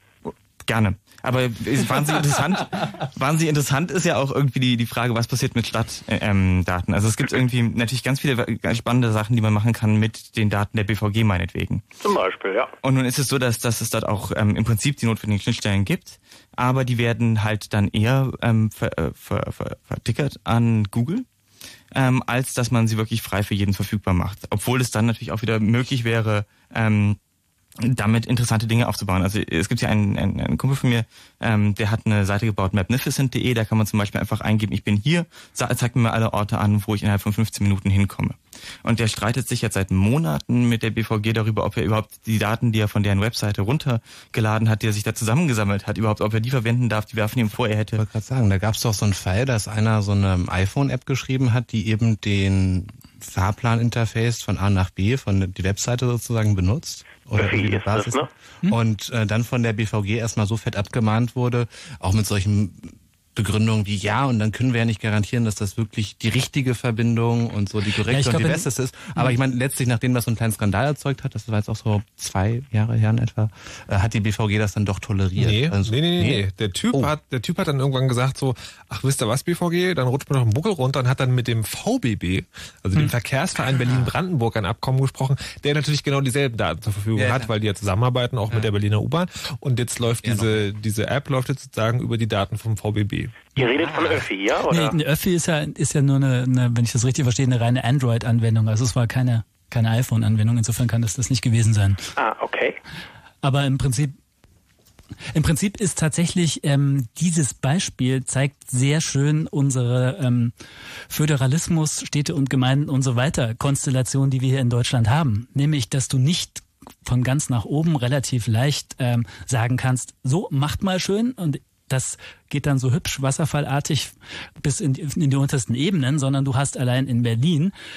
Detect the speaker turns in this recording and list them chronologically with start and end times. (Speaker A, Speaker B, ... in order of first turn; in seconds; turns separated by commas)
Speaker A: 0.2-11.8, Speaker B: 12.0-12.7, Speaker A: 12.8-21.2, Speaker A: 21.9-27.2, Speaker A: 27.8-48.0, Speaker C: 48.0-77.1, Speaker B: 57.3-58.3, Speaker D: 68.1-68.7, Speaker E: 75.4-93.5, Speaker C: 87.1-87.5, Speaker C: 90.2-90.7, Speaker B: 93.5-95.0, Speaker C: 93.8-94.2, Speaker D: 94.7-102.0, Speaker B: 102.2-102.8, Speaker D: 103.4-104.1, Speaker D: 105.3-110.5, Speaker D: 111.1-127.7